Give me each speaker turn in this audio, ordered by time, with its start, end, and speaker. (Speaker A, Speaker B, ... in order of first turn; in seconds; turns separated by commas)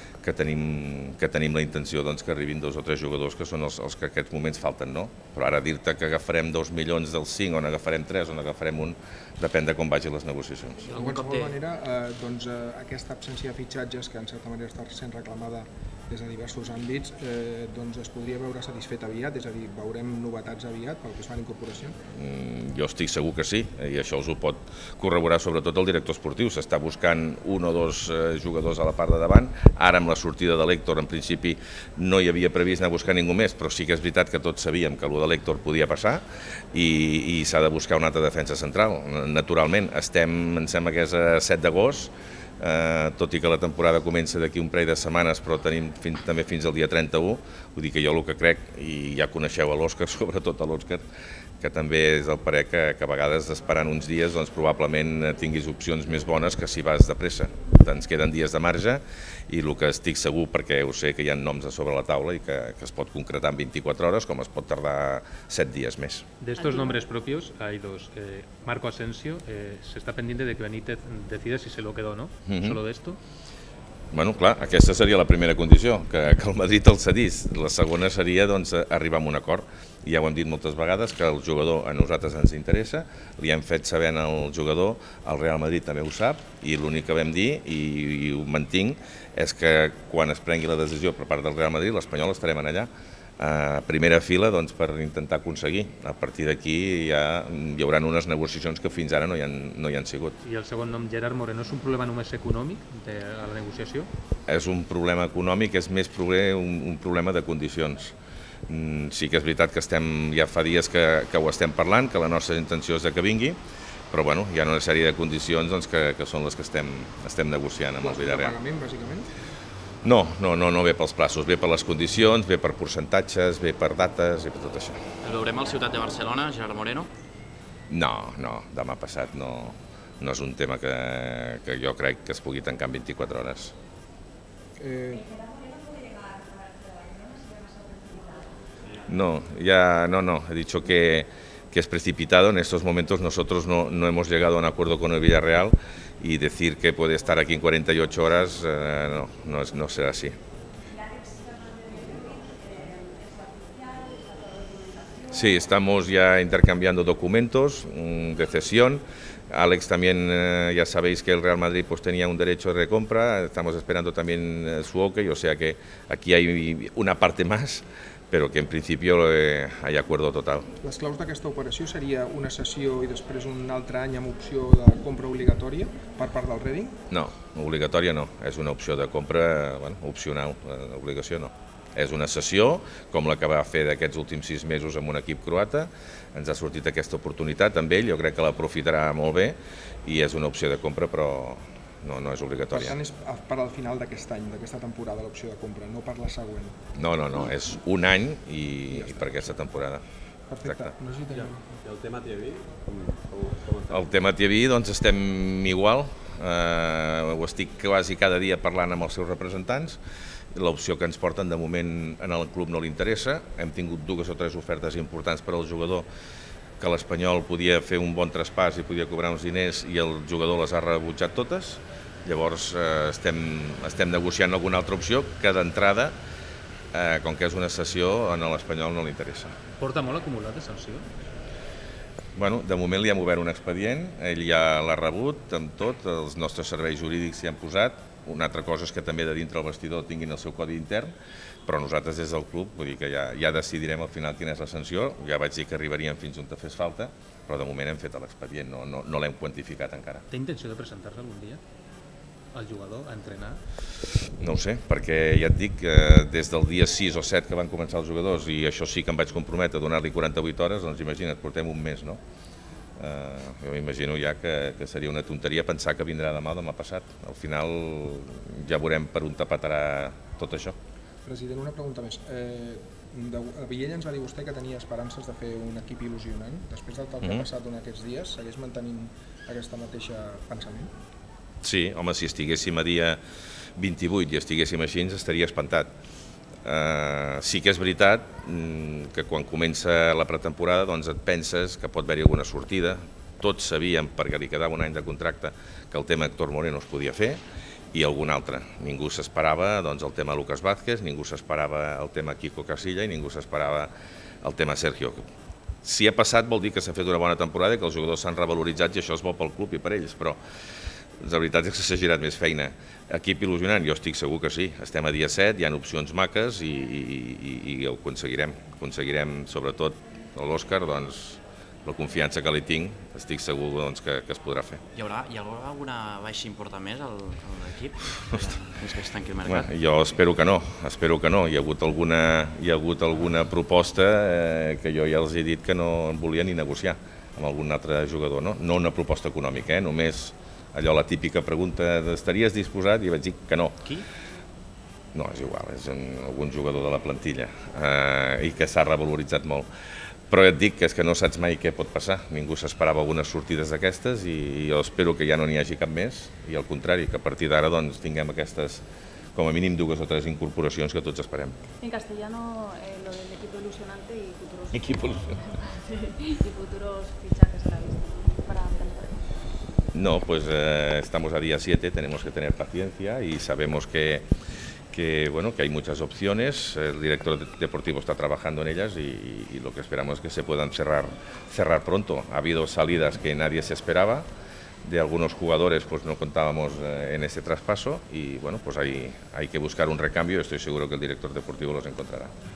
Speaker A: 0.2-10.9, Speaker B: 10.9-11.6, Speaker C: 10.9-22.0, Speaker A: 22.1-51.0, Speaker A: 51.6-66.2, Speaker D: 66.4-73.2, Speaker A: 72.5-72.8, Speaker A: 74.1-100.4, Speaker D: 100.4-104.1, Speaker A: 104.5-108.2, Speaker A: 108.7-113.6, Speaker A: 114.1-118.5, Speaker C: 118.0-119.3, Speaker A: 120.0-125.0, Speaker B: 125.2-127.1, Speaker A: 127.9-133.7, Speaker C: 134.8-135.3, Speaker A: 139.1-150.4, Speaker A: 155.3-170.7, Speaker C: 170.8-176.9, Speaker A: 177.1-193.0, Speaker C: 192.7-196.8, Speaker A: 196.9-200.0, Speaker C: 198.9-199.6, Speaker C: 200.5-201.8, Speaker A: 200.7-200.9, Speaker E: 201.3-204.2, Speaker A: 203.9-210.0, Speaker A: 210.5-216.1, Speaker A: 216.8-226.2, Speaker A: 226.9-229.5, Speaker D: 229.8-231.1, Speaker A: 232.3-241.2, Speaker A: 241.7-250.2, Speaker D: 250.3-251.6, Speaker D: 252.5-253.6, Speaker A: 254.4-262.2, Speaker A: 263.0-270.8, Speaker C: 271.2-280.9, Speaker A: 281.6-283.2, Speaker A: 283.8-285.9, Speaker A: 286.6-297.4, Speaker A: 297.9-305.2, Speaker A: 305.8-310.4, Speaker A: 311.2-324.8, Speaker B: 324.9-329.8, Speaker A: 329.4-343.9, Speaker A: 345.1-349.7, Speaker A: 350.3-358.8, Speaker A: 359.4-361.6, Speaker F: 361.8-369.1, Speaker A: 364.8-365.3, Speaker A: 369.9-374.3, Speaker A: 374.9-384.3, Speaker A: 384.8-392.3